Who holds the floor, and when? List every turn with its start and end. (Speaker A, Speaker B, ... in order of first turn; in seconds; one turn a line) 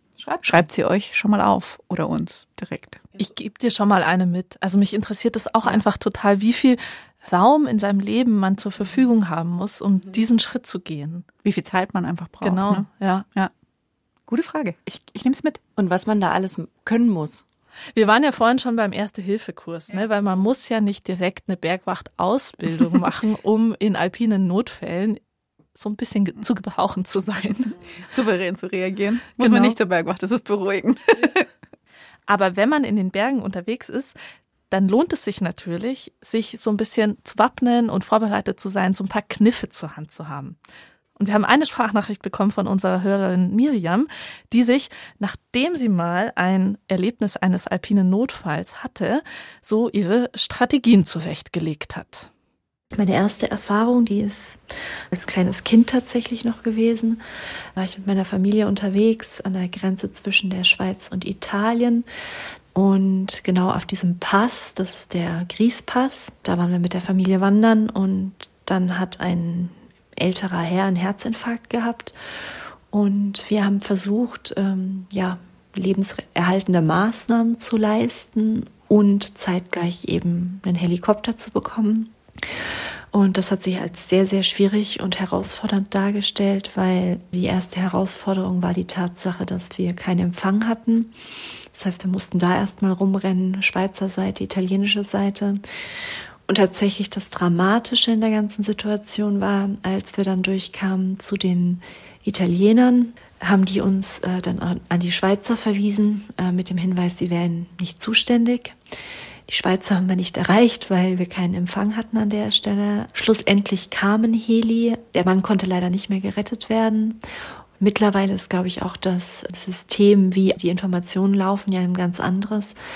Speaker A: 0.2-0.6
Speaker B: 0.4-3.0
Speaker C: 3.2-11.2
Speaker B: 11.4-13.5
Speaker C: 12.4-13.2
Speaker B: 14.3-15.6
Speaker A: 15.8-17.4
Speaker C: 17.9-25.2
Speaker C: 25.7-27.8
Speaker B: 28.0-31.4
Speaker C: 29.4-29.7
Speaker C: 32.3-34.1
Speaker C: 34.7-40.6
Speaker C: 41.2-52.3
Speaker D: 52.9-54.6
Speaker D: 55.1-57.2
Speaker D: 57.8-62.0
Speaker D: 62.7-72.2
Speaker D: 72.9-91.1
Speaker D: 91.7-108.8
Speaker D: 109.5-117.2
Speaker D: 117.8-122.8